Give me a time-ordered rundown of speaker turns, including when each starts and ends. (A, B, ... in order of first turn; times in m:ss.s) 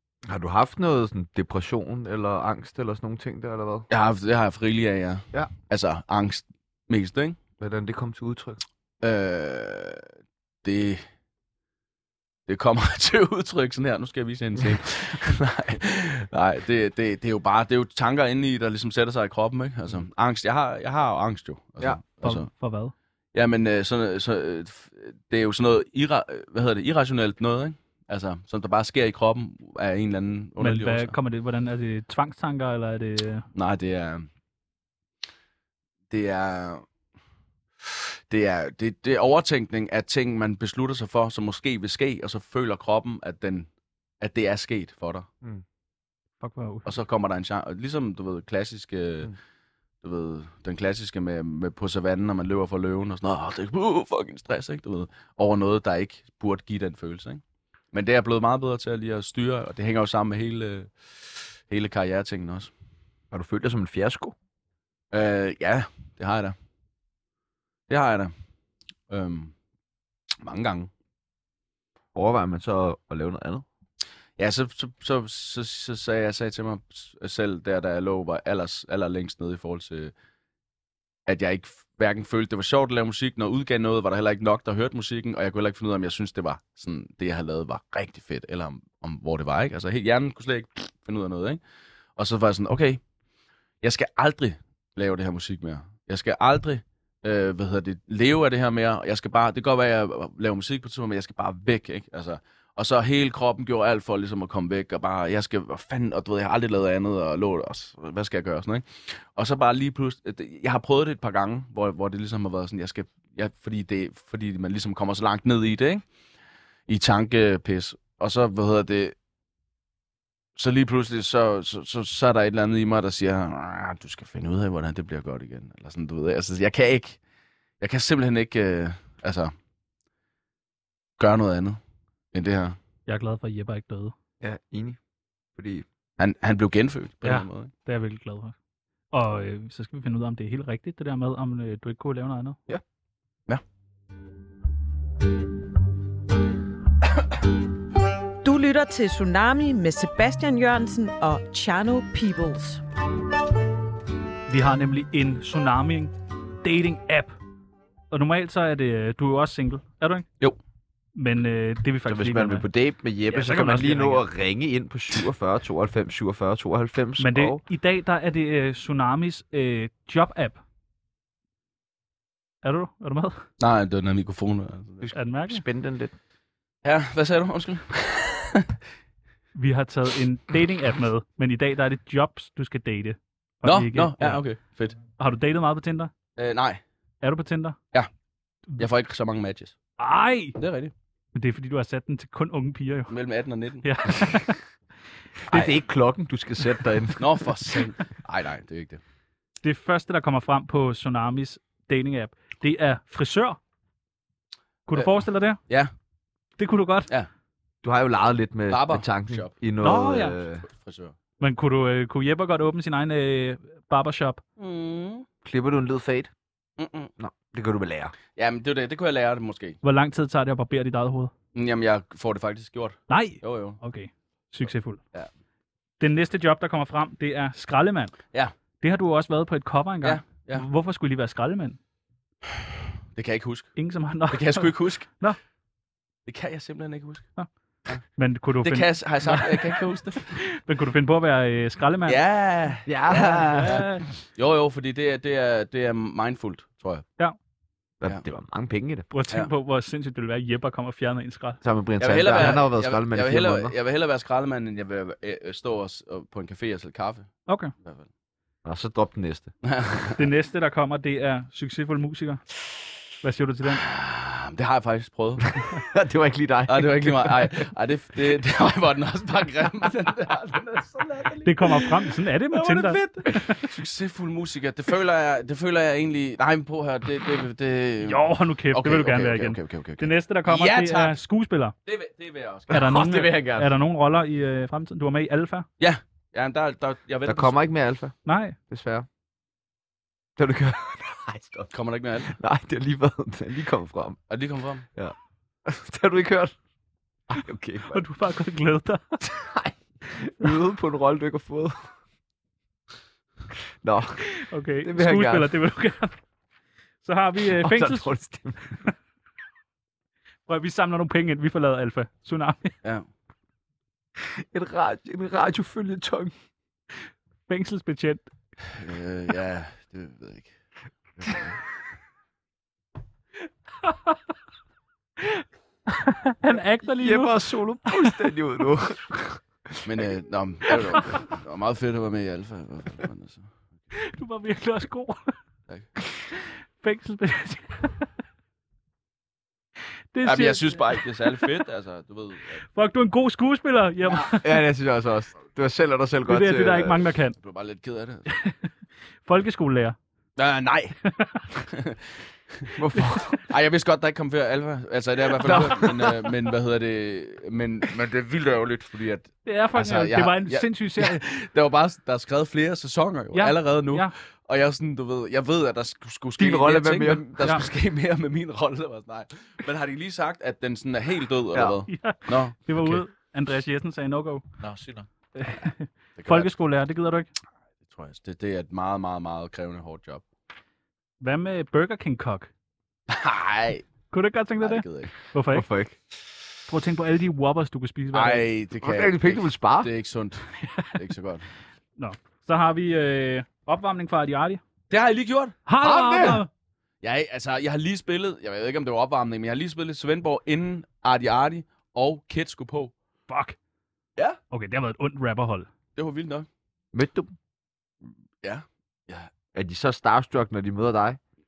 0:00.2-0:03.9 A
0:03.9-0:07.4 B
0:07.6-0:08.6 A
0:09.0-0:10.1 B
0:10.6-0:11.0 B
0:12.5-0:22.5 B
0:22.2-0:22.9 C
0:23.3-0:31.1 B
0:30.6-0:33.4 C
0:33.5-0:34.3 B
0:36.1-0:36.8 B
0:37.8-0:43.7 B
0:44.2-0:45.3 B
0:46.4-0:46.9 C
0:46.8-0:49.3 B
0:50.0-0:57.4 B
0:57.9-1:02.7 B
1:03.3-1:04.3 A
1:05.1-1:06.5 B
1:07.9-1:08.3 B
1:09.1-1:09.5 B
1:10.4-1:10.9 B
1:12.1-1:13.6 A
1:14.4-1:20.1 B
1:21.2-1:31.6 B
1:32.2-1:33.0 B
1:33.8-1:56.0 B
1:56.9-1:59.1 B
2:00.6-2:07.2 B
2:07.8-2:09.5 B
2:11.2-2:11.8 B
2:12.3-2:12.8 B
2:13.1-2:14.1 C
2:14.4-2:15.0 A
2:15.5-2:15.8 A
2:16.2-2:17.7 B
2:17.2-2:18.5 C
2:19.1-2:22.6 C
2:28.4-2:32.8 D
2:34.5-2:37.4 C
2:38.1-2:40.3 C
2:41.1-2:42.6 C
2:42.0-2:47.6 A
2:43.3-2:44.2 C
2:47.2-2:50.6 C
2:52.6-2:53.4 C
2:53.6-2:55.1 B
2:55.0-2:56.1 A
2:55.1-2:55.6 C
2:56.8-2:58.7 B
2:59.5-3:04.4 C
3:03.6-3:05.0 B
3:05.2-3:06.1 C
3:06.4-3:06.8 B
3:07.2-3:07.8 C
3:08.8-3:09.8 B
3:10.0-3:10.6 C
3:10.6-3:10.9 B
3:11.3-3:13.1 C
3:13.1-3:13.9 B
3:13.8-3:14.6 C
3:15.4-3:15.7 C
3:15.5-3:17.2 A
3:17.2-3:19.0 B
3:19.6-3:23.6 C
3:24.9-3:25.6 C
3:26.6-3:27.1 C
3:27.8-3:30.6 A
3:28.7-3:29.5 B
3:29.8-3:30.4 C
3:30.7-3:31.2 B
3:31.4-3:34.4 C
3:34.6-3:35.2 B
3:35.4-3:36.3 A
3:36.8-3:37.1 B
3:37.2-3:38.1 A
3:38.4-3:39.8 B
3:39.8-3:41.3 C
3:41.5-3:43.8 B
3:43.1-3:45.0 C
3:46.0-3:48.2 C
3:48.8-3:51.8 C
3:50.0-3:50.6 B
3:53.1-3:53.7 B
3:53.8-3:55.4 C
3:54.3-3:55.1 B
3:56.3-3:57.2 B
3:58.2-4:02.2 C
3:58.6-4:00.4 B
4:02.0-4:03.8 B
4:02.9-4:03.9 A
4:03.2-4:04.0 C
4:04.4-4:07.0 B
4:08.0-4:09.1 A
4:09.1-4:11.6 C
4:11.6-4:13.7 A
4:12.0-4:18.1 B
4:17.5-4:17.7 C
4:18.6-4:19.5 A
4:19.6-4:20.2 B
4:20.2-4:22.4 C
4:23.2-4:23.8 C
4:23.8-4:25.5 B
4:25.6-4:27.6 A
4:26.7-4:31.5 B
4:31.4-4:33.7 C
4:32.6-4:38.2 B
4:32.7-4:33.1 A
4:38.0-4:41.7 C
4:38.7-4:41.1 B
4:41.8-4:42.8 B
4:42.7-4:43.7 A
4:42.7-4:45.7 C
4:45.8-4:47.6 B
4:47.2-4:48.2 A
4:48.2-4:48.6 C
4:48.7-4:49.0 A
4:50.4-4:51.7 A
4:51.7-4:52.3 B
4:52.2-4:54.2 A
4:54.3-4:54.9 B
4:54.9-4:56.6 A
4:57.3-4:58.0 A
4:57.9-4:59.3 C
4:59.2-5:01.9 A
5:03.8-5:05.5 A
5:04.3-5:06.2 C
5:07.0-5:08.1 C
5:07.4-5:08.8 A
5:10.5-5:12.7 C
5:14.2-5:16.3 A
5:17.5-5:18.3 C
5:18.8-5:20.5 B
5:21.2-5:21.5 B
5:23.8-5:24.1 C
5:25.2-5:28.3 C
5:26.8-5:29.8 A
5:29.8-5:33.5 B
5:33.9-5:35.4 C
5:36.3-5:38.1 C
5:40.1-5:41.5 C
5:40.2-5:42.6 B
5:42.7-5:44.6 C
5:44.3-5:47.1 A
5:46.3-5:47.4 C
5:47.4-5:48.3 B
5:48.3-5:48.6 C
5:49.2-5:50.0 C
5:50.4-5:51.0 B
5:51.1-5:51.4 C
5:51.6-5:52.0 B
5:52.7-5:53.4 A
5:53.5-6:12.6 B
5:55.4-5:56.2 A
5:59.4-6:01.2 C
6:03.3-6:04.1 C
6:06.4-6:07.3 A
6:11.9-6:14.4 C
6:14.6-6:14.9 B
6:15.4-6:17.3 C
6:16.2-6:16.5 B
6:17.8-6:20.2 B
6:21.2-6:22.5 C
6:23.1-6:23.9 B
6:24.1-6:25.7 C
6:24.6-6:25.1 B
6:25.5-6:26.0 A
6:26.7-6:28.5 C
6:28.1-6:31.4 B
6:28.8-6:29.9 A
6:32.0-6:34.6 C
6:34.9-6:35.6 B
6:35.7-6:36.5 C
6:35.8-6:36.4 A
6:37.0-6:42.9 B
6:43.3-6:43.6 C
6:44.5-6:45.7 C
6:46.0-6:46.5 B
6:46.9-6:47.3 A
6:48.4-6:49.3 B
6:49.5-6:51.2 A